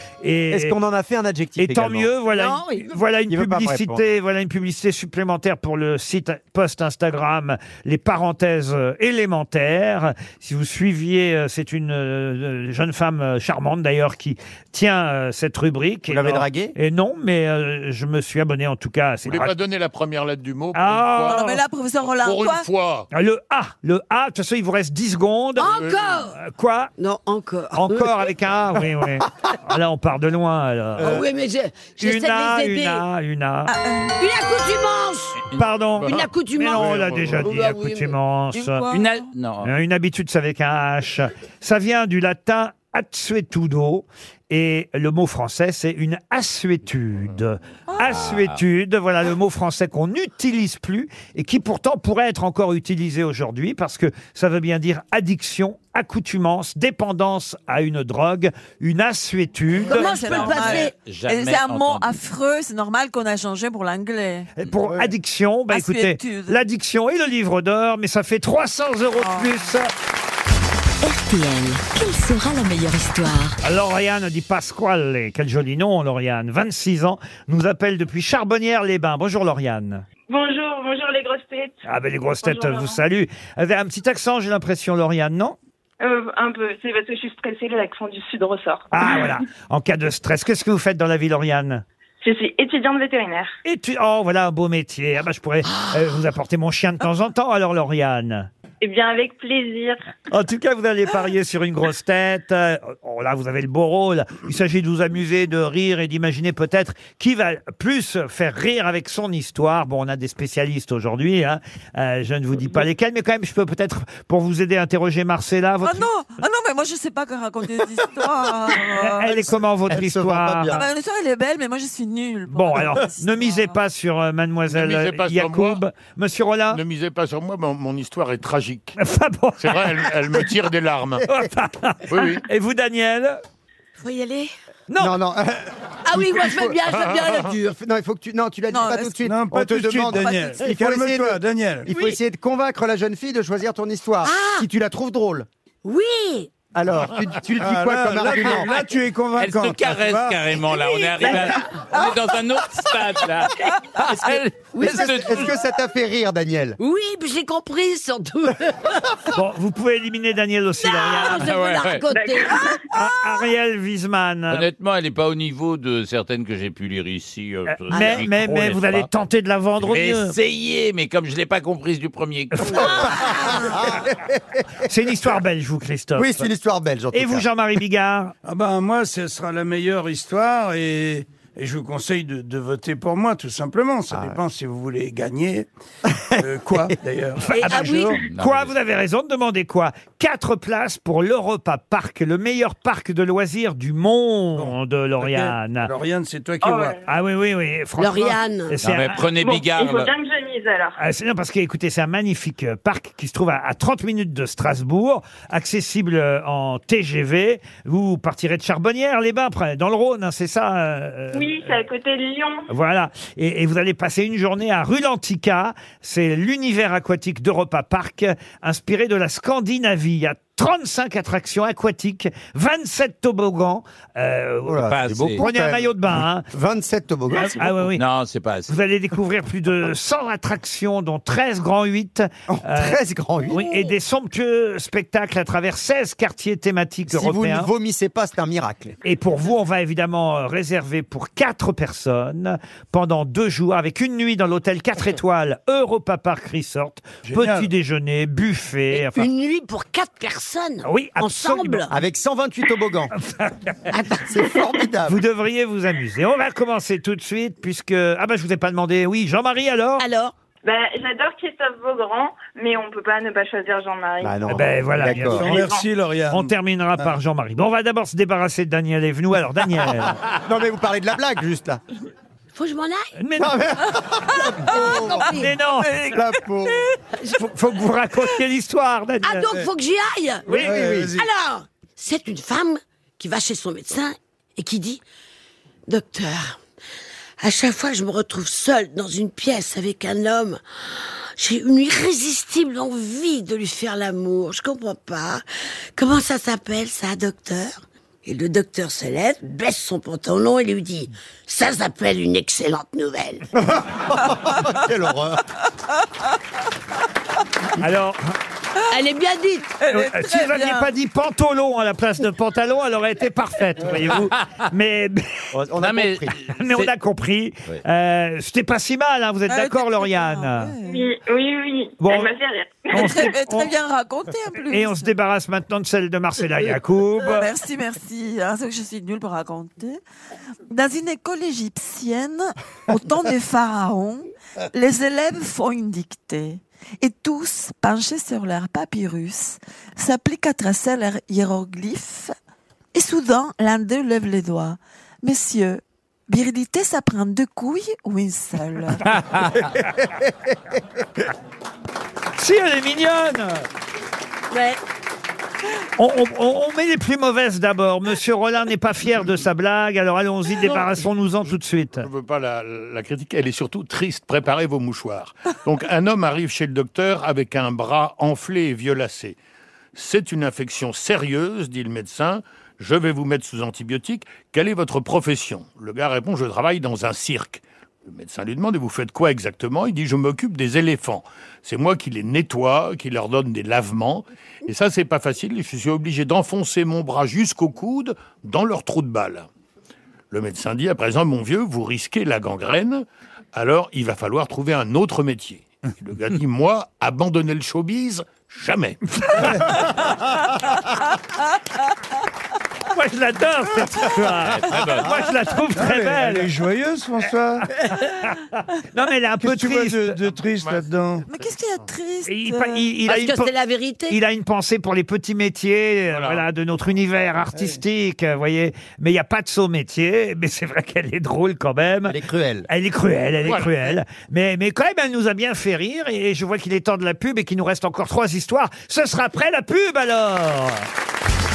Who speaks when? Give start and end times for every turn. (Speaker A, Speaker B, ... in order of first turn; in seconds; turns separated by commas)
Speaker A: 0.2-0.7, Speaker B: 0.5-2.1, Speaker A: 1.6-19.5, Speaker C: 2.2-3.0, Speaker B: 3.3-4.0, Speaker B: 16.1-16.7, Speaker D: 19.2-21.4, Speaker A: 20.7-21.6, Speaker E: 21.2-22.7, Speaker D: 22.1-23.1, Speaker A: 23.1-25.7, Speaker C: 25.6-26.4, Speaker D: 25.6-26.2, Speaker A: 26.4-26.9, Speaker C: 27.0-28.3, Speaker A: 27.7-31.2, Speaker C: 31.0-33.0, Speaker A: 32.0-33.7, Speaker E: 33.6-34.1, Speaker C: 34.2-35.4, Speaker A: 35.5-38.8, Speaker D: 36.0-37.5, Speaker C: 36.0-38.1, Speaker E: 38.5-39.2, Speaker F: 38.9-39.7, Speaker A: 39.6-60.6, Speaker F: 48.1-48.6, Speaker C: 59.8-60.9, Speaker E: 59.9-64.5, Speaker F: 60.6-62.1, Speaker A: 64.6-69.9, Speaker E: 65.7-66.6, Speaker E: 69.2-69.6, Speaker G: 71.0-73.6, Speaker A: 73.6-80.0, Speaker H: 80.3-81.8, Speaker A: 81.8-85.6, Speaker H: 82.4-83.0, Speaker H: 86.0-89.2, Speaker A: 88.9-91.8, Speaker H: 92.2-93.5, Speaker A: 93.6-98.5, Speaker H: 98.8-100.0, Speaker A: 100.3-116.1, Speaker E: 115.8-119.4, Speaker A: 119.0-120.9, Speaker B: 119.9-120.8, Speaker E: 120.7-123.8, Speaker A: 122.5-126.8, Speaker D: 124.7-125.8, Speaker D: 126.7-129.0, Speaker A: 129.0-130.1, Speaker D: 129.6-131.3, Speaker A: 131.2-133.4, Speaker D: 132.1-132.4, Speaker C: 134.0-134.5, Speaker A: 134.9-135.2, Speaker B: 135.0-136.8, Speaker C: 136.1-137.7, Speaker B: 137.6-145.5, Speaker E: 138.7-139.2, Speaker I: 139.2-141.9, Speaker E: 140.2-140.5, Speaker C: 144.2-144.7, Speaker C: 145.8-146.5, Speaker B: 146.7-148.7, Speaker I: 147.6-150.5, Speaker F: 149.4-155.5, Speaker C: 151.0-152.0, Speaker C: 154.7-155.3, Speaker B: 154.8-156.8, Speaker C: 156.8-159.0, Speaker A: 159.3-161.5, Speaker C: 160.8-162.8, Speaker F: 161.3-162.1, Speaker H: 162.1-162.4, Speaker A: 162.9-164.7, Speaker F: 164.5-169.1, Speaker A: 167.7-170.3, Speaker C: 167.9-168.2, Speaker F: 169.8-173.4, Speaker A: 172.5-172.9, Speaker C: 172.7-173.9, Speaker B: 173.1-174.4, Speaker A: 174.8-176.4, Speaker B: 176.2-177.4, Speaker A: 177.1-178.3, Speaker I: 178.4-185.7, Speaker B: 184.1-184.4, Speaker I: 186.3-188.2, Speaker A: 187.5-195.9, Speaker C: 187.5-188.2, Speaker F: 188.3-188.7, Speaker I: 194.5-197.0, Speaker H: 196.6-197.0, Speaker A: 197.1-199.2, Speaker C: 198.0-198.8, Speaker F: 198.8-200.1, Speaker H: 199.3-200.9, Speaker A: 201.0-211.8, Speaker H: 211.3-212.7, Speaker A: 212.7-226.4, Speaker B: 224.7-227.7, Speaker F: 224.9-225.4, Speaker A: 227.4-228.0, Speaker F: 227.9-228.7, Speaker A: 228.7-237.7, Speaker B: 232.5-233.7, Speaker B: 237.1-239.0, Speaker A: 239.0-249.3, Speaker I: 247.2-247.7, Speaker C: 248.9-251.9, Speaker A: 250.8-251.8, Speaker B: 251.9-253.1, Speaker A: 253.2-253.8, Speaker C: 253.9-254.2, Speaker B: 254.2-255.2, Speaker A: 255.1-260.1, Speaker C: 260.0-260.3, Speaker H: 260.6-264.7, Speaker B: 264.2-265.6, Speaker A: 264.4-265.7, Speaker I: 265.1-267.1, Speaker A: 266.3-270.2, Speaker B: 270.3-271.8, Speaker C: 272.5-273.1, Speaker A: 273.2-273.6, Speaker B: 273.4-275.3, Speaker E: 274.3-275.2, Speaker C: 274.7-275.5, Speaker A: 275.3-276.1, Speaker E: 275.8-276.7, Speaker B: 276.1-276.8, Speaker A: 277.3-279.5, Speaker C: 279.2-280.6, Speaker A: 280.5-280.7, Speaker I: 280.5-281.3, Speaker B: 280.5-281.2, Speaker C: 281.1-285.0, Speaker C: 285.9-286.6, Speaker C: 287.4-295.4, Speaker C: 295.9-303.4, Speaker B: 303.6-305.4, Speaker A: 307.8-308.2, Speaker C: 308.9-309.7, Speaker E: 309.8-310.9, Speaker A: 309.9-315.5, Speaker B: 315.5-316.3, Speaker F: 315.8-316.9, Speaker A: 316.6-320.7, Speaker E: 319.5-321.1, Speaker H: 320.8-323.1, Speaker A: 322.0-322.4, Speaker A: 322.9-323.7, Speaker E: 322.9-325.1, Speaker A: 324.7-327.5, Speaker E: 327.2-330.0, Speaker E: 330.7-342.3, Speaker E: 342.9-349.1, Speaker A: 352.4-353.6, Speaker C: 354.5-354.8, Speaker A: 356.0-362.1, Speaker D: 362.0-369.4, Speaker D: 369.9-389.5, Speaker D: 390.3-399.0, Speaker A: 399.2-399.5, Speaker A: 402.9-406.5, Speaker F: 404.5-405.2, Speaker I: 405.7-407.7, Speaker A: 407.8-410.2, Speaker I: 409.4-411.2, Speaker D: 410.6-410.9, Speaker E: 411.2-412.9, Speaker A: 412.2-413.5, Speaker C: 413.1-414.2, Speaker A: 414.1-422.2, Speaker D: 416.1-416.4, Speaker I: 417.5-417.8, Speaker B: 422.1-422.7, Speaker A: 422.7-430.9, Speaker D: 423.4-423.9